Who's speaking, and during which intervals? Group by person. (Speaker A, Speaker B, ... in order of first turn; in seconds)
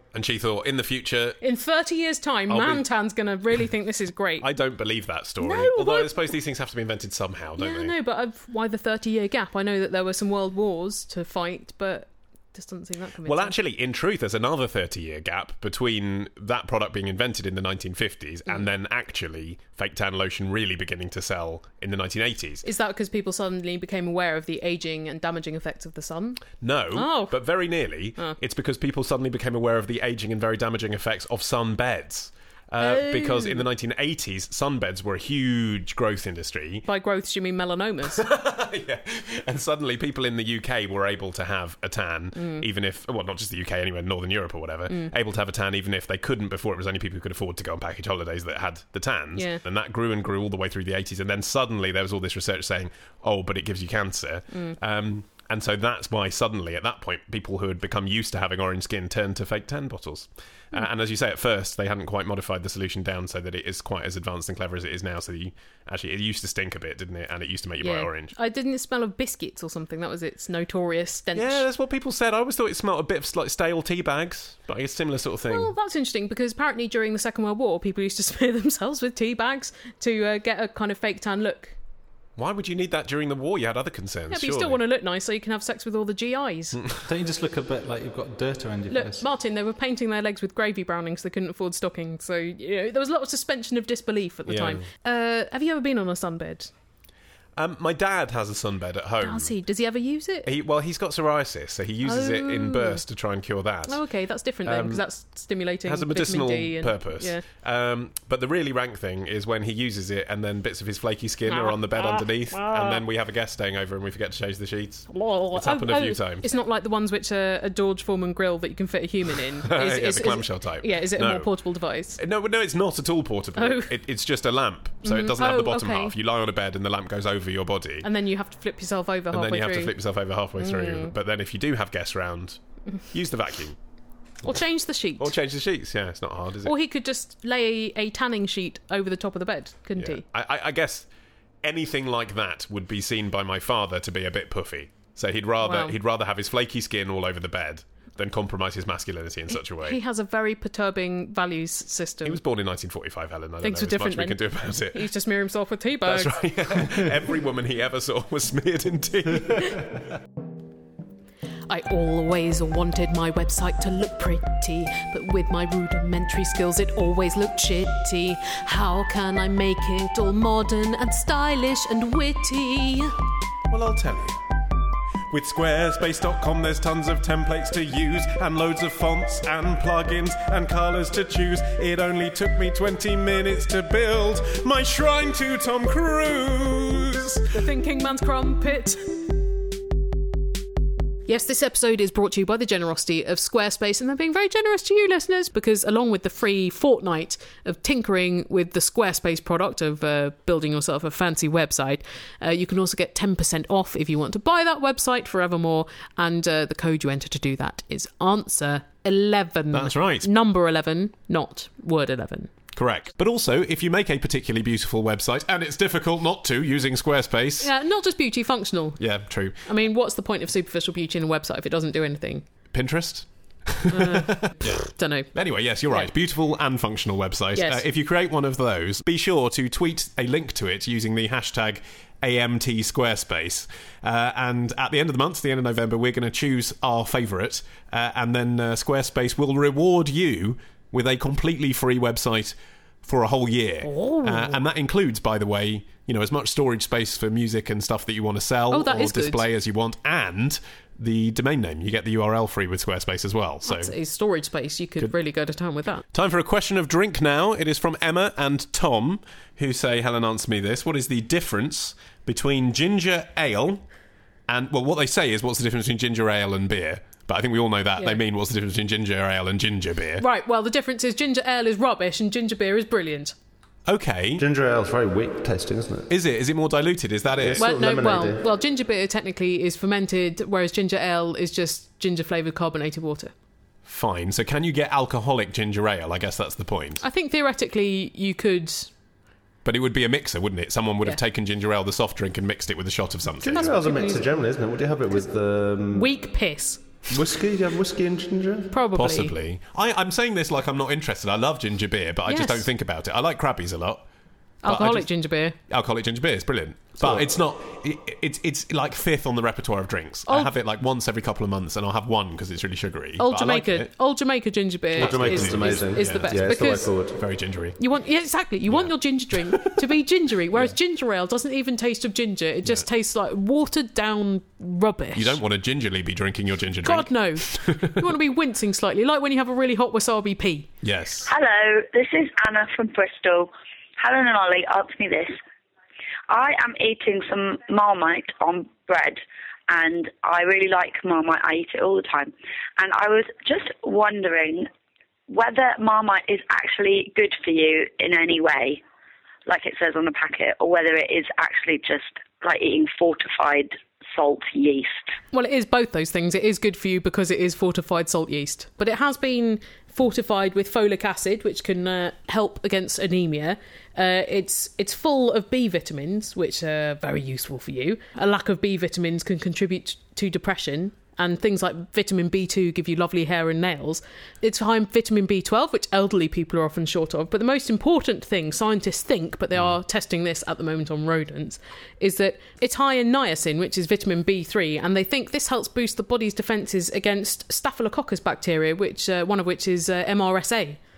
Speaker A: 0.1-1.4, 2.5-2.9, 4.4-7.9, 13.2-22.6, 26.6-36.9, 38.1-68.3, 71.3-75.7, 82.4-84.8, 94.5-94.8, 97.6-99.5, 100.5-104.0, 104.7-105.0, 105.9-116.5, 119.7-121.5, 122.2-128.1, 129.3-132.6, 133.1-133.8, 135.2-136.7, 140.0-141.1, 141.6-150.0, 152.2-155.1, 156.1-160.0, 173.7-174.4, 175.3-187.5, 209.7-210.3, 212.8-217.7, 219.0-219.6, 222.7-253.9, 256.1-263.8, 264.5-270.2, 273.9-274.4, 276.1-277.7, 283.9-287.0, 289.6-293.8, 298.9-304.1, 304.6-305.1, 305.7-313.9, 315.0-316.6, 317.2-317.8, 319.5-319.8, 325.1-328.0, 330.8-331.3
Speaker B: 1.4-4.5, 5.4-6.3, 7.6-13.6, 22.6-27.4, 32.8-33.7, 36.9-38.2, 42.4-42.6, 49.4-49.6, 54.5-54.8, 67.8-71.7, 75.5-81.8, 84.3-86.8, 88.9-96.7, 99.2-100.5, 102.0-103.0, 103.9-107.4, 111.5-113.0, 115.1-122.2, 123.6-123.9, 125.0-126.2, 128.0-129.9, 130.6-131.1, 134.4-135.3, 136.7-140.2, 145.6-145.9, 149.5-152.4, 153.6-156.4, 161.7-173.2, 187.5-189.2, 191.3-212.5, 217.6-219.0, 219.6-222.5, 223.9-225.3, 227.6-227.8, 243.8-244.6, 248.7-249.4, 253.7-256.1, 270.2-273.3, 277.6-283.3, 287.0-288.9, 293.5-294.2, 295.9-296.8, 298.7-299.4, 302.3-302.7, 304.6-305.6, 310.3-310.5, 313.2-317.0, 317.8-325.4, 326.8-330.7, 355.3-390.8
Speaker C: 87.1-89.2
Speaker D: 274.4-276.1, 277.4-278.4, 293.4-296.1, 297.1-298.7, 307.0-307.2, 315.0-317.2
Speaker E: 331.3-335.4, 336.3-344.7, 345.3-348.8, 349.5-355.0